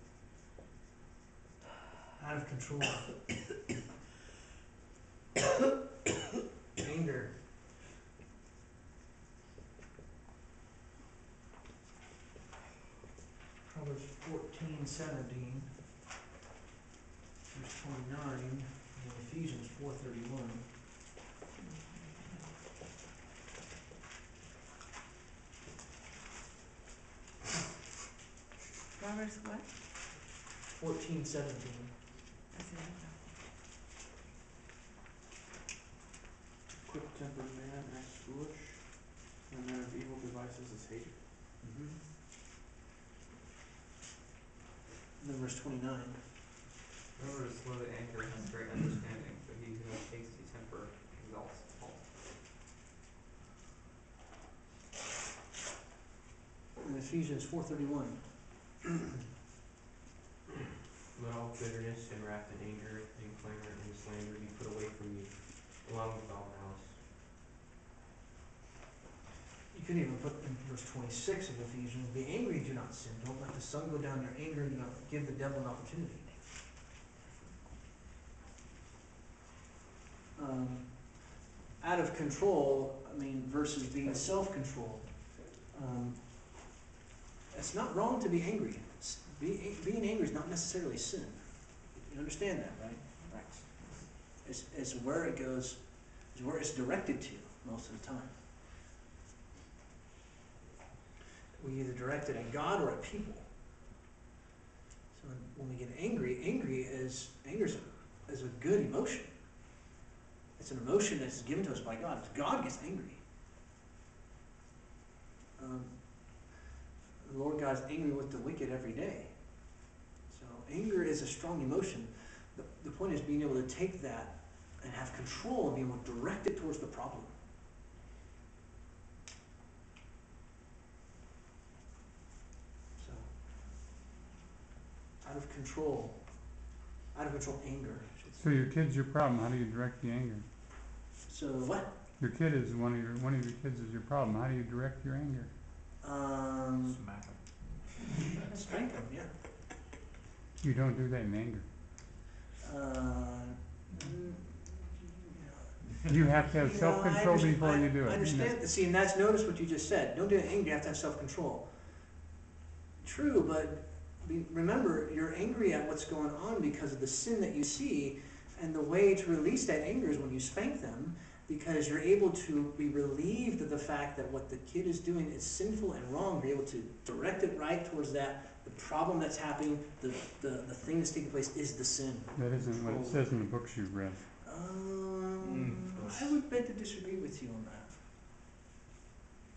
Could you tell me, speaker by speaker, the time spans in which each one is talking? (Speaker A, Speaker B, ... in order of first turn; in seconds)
Speaker A: 2.2-3.2, 6.8-7.3, 13.6-15.7, 17.5-20.7, 30.7-31.9, 41.6-42.0, 45.2-46.3, 56.8-58.5, 69.7-76.3, 80.3-86.5, 87.5-93.2, 94.4-98.3, 101.6-103.5, 105.1-109.4, 110.6-113.2, 115.6-116.5, 117.2-127.3, 132.9-133.3, 135.2-136.5, 137.1-138.6, 141.2-141.9, 146.0-147.1, 148.3-149.3, 152.6-161.9, 163.0-182.4, 184.4-188.0
Speaker B: 21.6-22.6, 29.0-29.8, 32.5-33.5, 93.2-94.0
Speaker C: 36.8-41.2, 182.6-183.2
Speaker D: 47.1-52.1
Speaker E: 61.1-67.0
Speaker F: 138.4-140.4, 142.2-145.5, 150.6-151.7, 156.0-158.6, 182.3-184.2